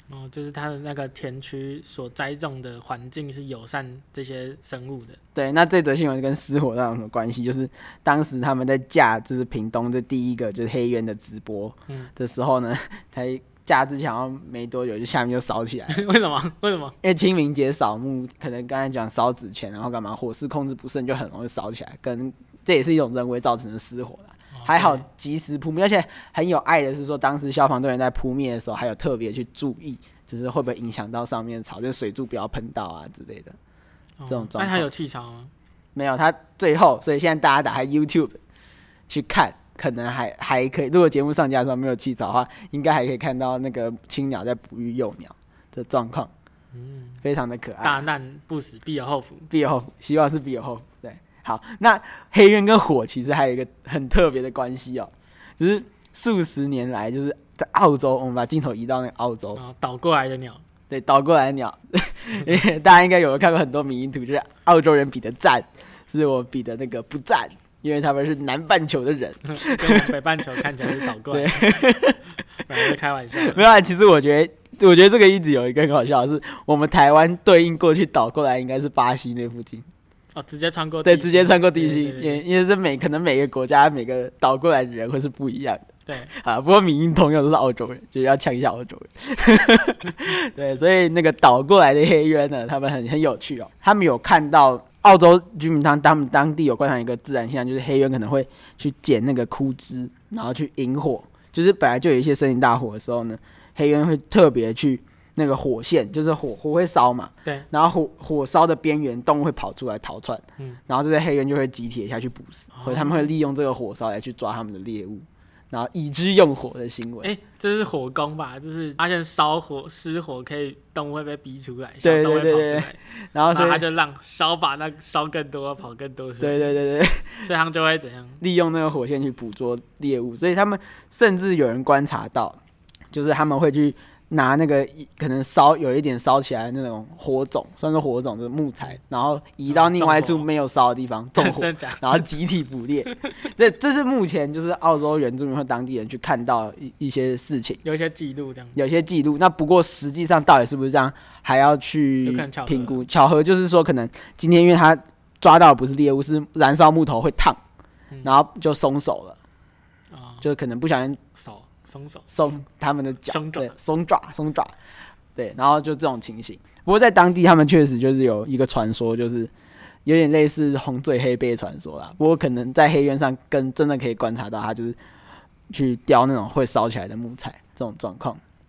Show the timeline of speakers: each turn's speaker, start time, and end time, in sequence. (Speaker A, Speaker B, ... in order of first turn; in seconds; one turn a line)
Speaker A: 0.1-5.2
Speaker B: 5.3-16.1
Speaker A: 15.9-17.0
Speaker B: 17.0-33.6
Speaker A: 24.5-25.1
Speaker A: 34.2-35.5
Speaker B: 34.3-34.9
Speaker B: 36.0-38.4
Speaker B: 39.1-46.3
Speaker A: 46.7-47.2
Speaker B: 47.2-48.0
Speaker A: 47.8-49.5
Speaker B: 49.5-59.6
Speaker A: 59.5-60.6
Speaker B: 60.9-70.1
Speaker A: 69.5-71.8
Speaker B: 71.3-72.2
Speaker A: 72.6-73.6
Speaker B: 73.3-79.9
Speaker A: 80.3-82.4
Speaker B: 81.0-117.3
Speaker A: 86.1-86.3
Speaker A: 112.7-113.2
Speaker A: 117.2-123.0
Speaker B: 122.0-123.9
Speaker A: 123.5-126.8
Speaker B: 126.4-127.5
Speaker A: 127.4-128.4
Speaker B: 128.4-132.6
Speaker B: 133.1-147.8
Speaker A: 139.7-140.5
Speaker A: 141.4-142.3
Speaker A: 147.8-148.8
Speaker B: 148.8-157.6
Speaker A: 152.2-153.0
Speaker A: 158.1-158.4
Speaker B: 158.2-159.4
Speaker A: 160.1-160.5
Speaker B: 160.4-161.2
Speaker A: 161.3-162.3
Speaker B: 162.3-164.7
Speaker A: 163.2-163.8
Speaker B: 165.4-169.5
Speaker B: 170.1-175.0
Speaker B: 175.7-178.4